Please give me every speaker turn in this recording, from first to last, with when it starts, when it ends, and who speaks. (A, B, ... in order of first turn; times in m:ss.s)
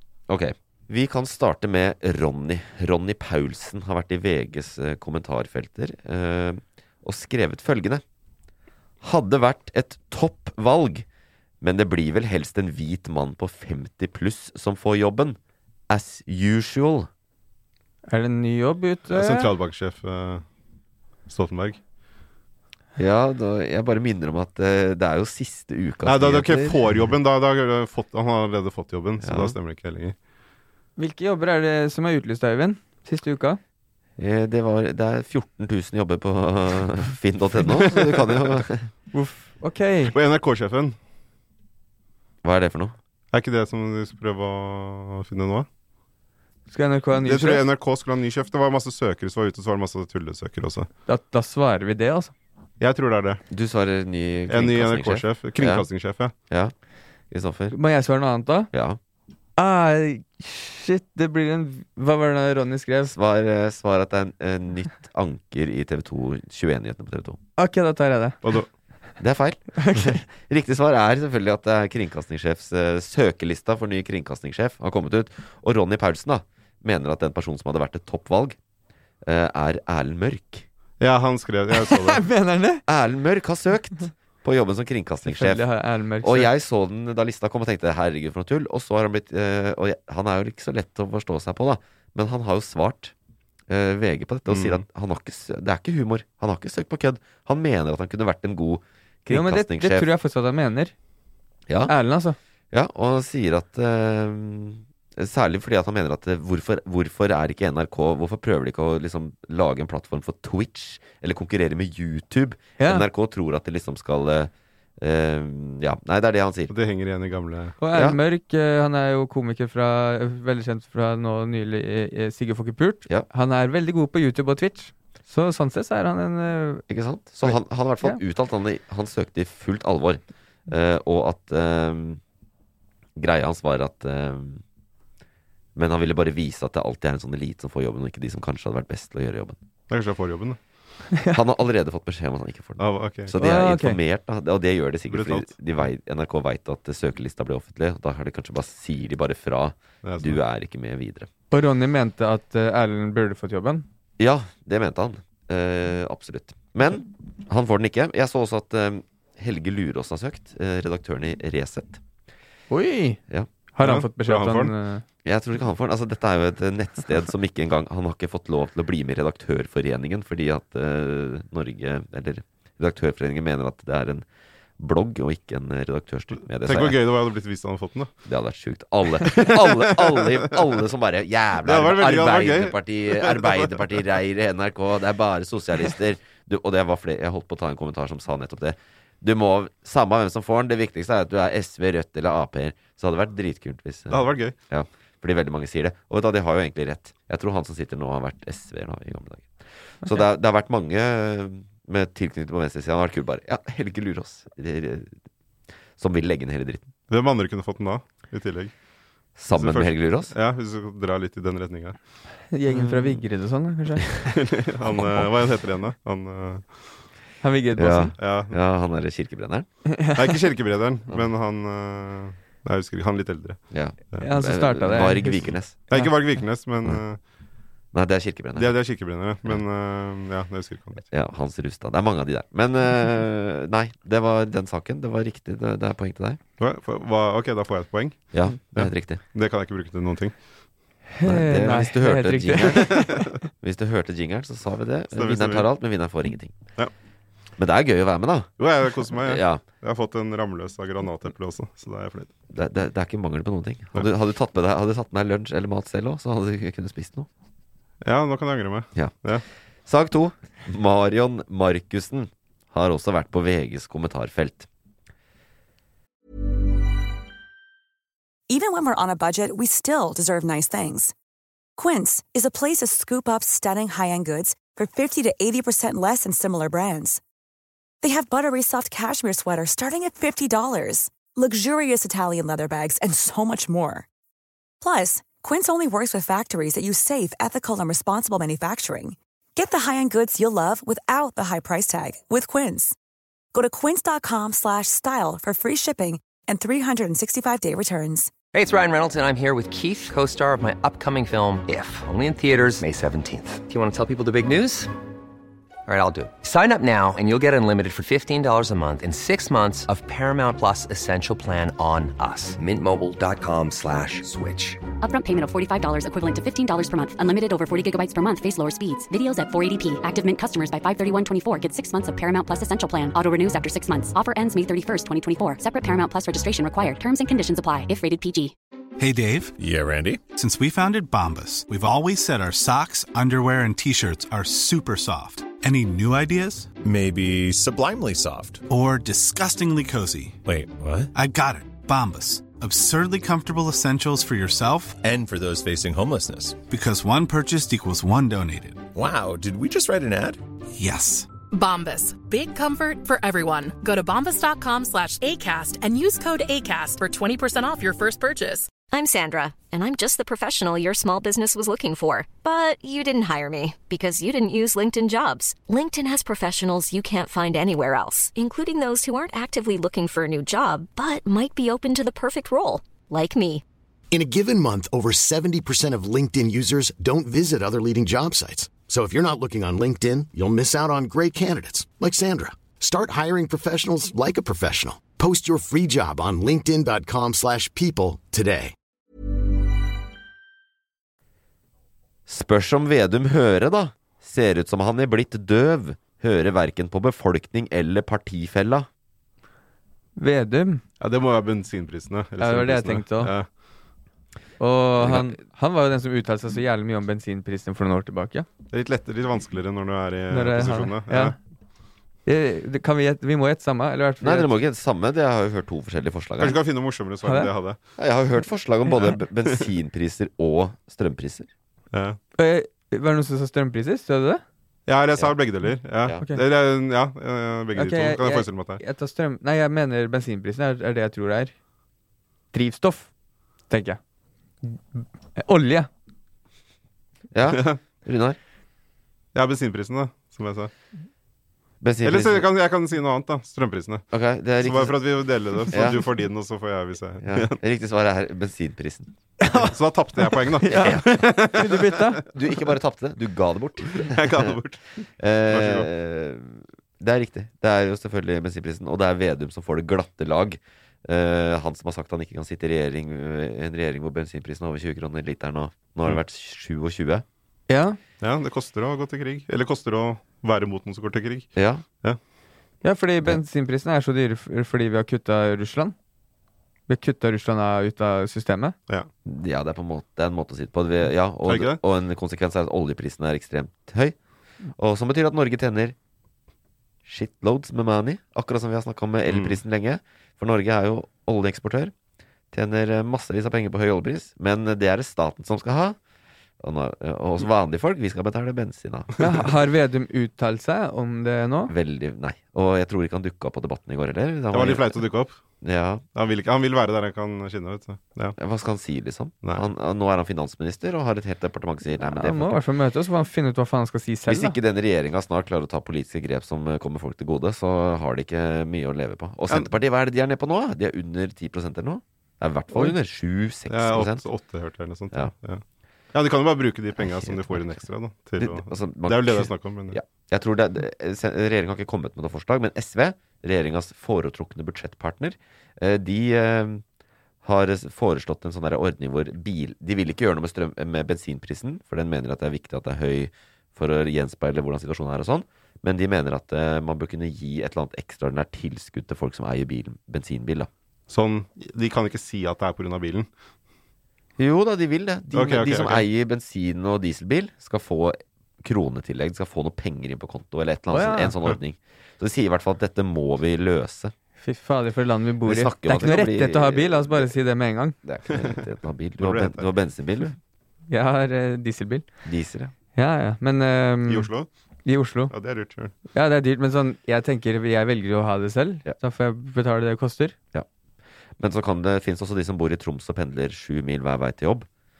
0:00.3-0:08.0 A
0:09.0-0:11.1 A
0:11.6-0:15.4 A
0:15.9-0:17.1 A
0:18.1-0:19.5 B
0:19.1-0:20.4 C
0:21.3-0:21.8 C
0:23.0-0:26.8 A
0:26.0-0:30.2 C
0:29.2-0:29.6 A
0:31.0-0:33.6 B
0:34.2-0:38.9 A
0:37.6-0:38.6 C
0:39.1-0:40.2 B
0:40.1-0:41.0 C
0:42.4-0:43.0 A
0:43.3-0:45.7 C
0:46.7-0:47.7 B
0:47.2-0:50.9 C
0:51.1-0:52.3 B
0:52.8-0:53.4 C
0:53.5-0:55.9 A
0:54.5-0:56.3 C
0:56.5-0:56.7 A
0:57.3-0:57.8 A
0:57.7-0:58.7 B
0:58.7-0:59.0 A
0:59.6-1:03.1 B
1:03.1-1:07.4 A
1:07.6-1:08.4 B
1:08.4-1:08.7 C
1:09.2-1:18.6 A
1:09.8-1:10.2 B
1:19.2-1:20.7 A
1:21.0-1:22.2 C
1:21.7-1:22.8 B
1:22.9-1:25.6 A
1:25.3-1:26.5 B
1:26.2-1:33.1 A
1:33.7-1:40.1 A
1:34.5-1:34.8 C
1:39.3-1:40.9 B
1:41.7-1:41.9 A
1:41.9-1:42.4 B
1:42.7-1:56.7 A
1:52.8-1:53.1 B
1:56.7-1:57.8 C
1:57.8-2:06.8 B
1:57.9-1:58.2 A
2:06.9-2:12.2 A
2:13.2-2:14.6 A
2:15.8-2:19.6 A
2:19.9-2:20.6 C
2:21.3-2:31.3 A
2:22.8-2:23.3 C
2:23.4-2:24.0 B
2:25.1-2:25.5 C
2:30.0-2:30.4 C
2:31.5-2:33.9 B
2:34.2-2:42.0 A
2:42.7-2:43.2 B
2:43.7-2:45.0 B
2:43.8-2:44.7 C
2:45.2-2:54.2 A
2:54.8-2:57.0 A
2:56.6-2:58.1 C
2:58.2-3:25.1 A
2:59.2-3:00.4 C
3:01.6-3:03.8 C
3:14.1-3:14.6 C
3:26.0-3:26.9 A
3:27.1-3:28.7 C
3:29.4-3:30.3 A
3:29.5-3:32.0 C
3:32.5-3:34.1 B
3:32.7-3:33.2 A
3:34.3-3:36.8 C
3:34.8-3:35.3 A
3:37.4-3:38.1 B
3:37.8-3:39.7 A
3:38.2-3:38.6 C
3:39.9-3:40.2 B
3:40.2-3:43.6 C
3:43.7-3:45.8 A
3:44.2-3:46.1 B
3:45.9-3:47.2 C
3:47.9-3:48.8 A
3:48.6-3:51.0 C
3:51.1-3:56.4 A
3:56.6-4:00.4 C
3:58.3-3:59.2 A
4:01.1-4:03.3 B
4:01.2-4:06.6 A
4:05.1-4:05.7 C
4:07.6-4:08.5 A
4:08.6-4:12.3 C
4:09.1-4:09.6 A
4:12.5-4:17.3 A
4:18.0-4:19.4 C
4:19.9-4:24.7 A
4:28.5-4:31.1 D
4:31.8-4:37.2 D
4:38.0-4:44.1 D
4:44.8-4:53.0 D
4:53.5-4:58.3 D
4:58.5-5:04.9 E
5:05.9-5:14.8 E
5:15.0-5:28.5 F
5:29.0-5:29.5 G
5:29.6-5:30.3 H
5:30.3-5:36.7 G
5:36.8-5:38.6 H
5:38.7-5:40.4 G
5:40.5-5:41.1 H
5:41.2-5:45.0 G
5:45.0-5:46.6 H
5:46.7-5:48.8 G
5:48.9-5:50.4 H
5:50.8-5:51.3 G
5:51.5-5:58.7 I
5:58.9-6:13.6 J
6:14.1-6:28.7 K
6:32.3-6:38.9 A
6:40.2-6:40.8 B
6:41.0-6:43.5 C
6:42.4-6:43.3 B
6:44.6-6:48.5 B
6:45.0-6:45.4 A
6:48.7-6:51.4 C
6:50.3-6:51.4 B
6:52.3-6:54.5 B
6:54.2-6:56.6 A
6:56.4-6:57.8 C
6:57.2-6:57.5 B
6:58.0-7:01.5 A
7:01.9-7:02.2 C
7:02.4-7:04.4 B
7:04.9-7:08.8 C
7:07.8-7:11.5 B
7:12.5-7:13.1 B
7:13.7-7:14.0 B
7:14.6-7:15.9 B
7:17.3-7:18.4 A
7:17.5-7:17.8 C
7:19.4-7:20.7 C
7:21.8-7:22.5 A
7:22.0-7:24.0 C
7:24.1-7:25.1 A
7:24.6-7:27.6 C
7:25.7-7:26.1 A
7:27.2-7:29.1 A
7:29.5-7:32.0 C
7:30.6-7:32.2 B
7:30.7-7:31.5 A
7:32.3-7:34.6 A
7:33.9-7:34.8 C
7:35.2-7:47.2 A
7:35.5-7:35.9 C
7:47.7-7:48.0 B
7:48.2-7:51.5 C
7:51.6-7:51.8 A
7:52.8-7:56.0 B
7:56.9-7:58.8 B
7:59.2-8:04.2 A
8:01.4-8:01.8 C
8:04.8-8:06.0 A
8:07.0-8:11.9 A
8:09.3-8:09.6 C
8:12.5-8:16.0 A
8:16.6-8:19.1 A
8:19.2-8:21.7 B
8:21.7-8:25.0 A
8:24.5-8:25.4 C
8:25.6-8:26.0 A
8:26.2-8:28.4 C
8:28.4-8:32.6 A
8:32.0-8:34.6 B
8:34.3-8:44.2 A
8:43.7-8:45.6 C
8:46.1-8:50.0 C
8:47.0-8:47.7 A
8:48.4-8:56.8 A
8:57.4-9:10.7 A
9:11.1-9:13.3 C
9:14.4-9:24.1 A
9:15.3-9:16.1 C
9:20.9-9:21.4 B
9:24.4-9:28.0 B
9:25.4-9:27.3 A
9:28.0-9:30.4 A
9:28.3-9:28.6 C
9:29.2-9:29.7 C
9:30.9-9:32.1 B
9:32.2-9:32.7 A
9:33.0-9:34.3 B
9:34.1-9:34.5 C
9:34.8-9:35.3 B
9:35.3-9:35.9 C
9:36.1-9:40.4 B
9:41.4-9:44.7 A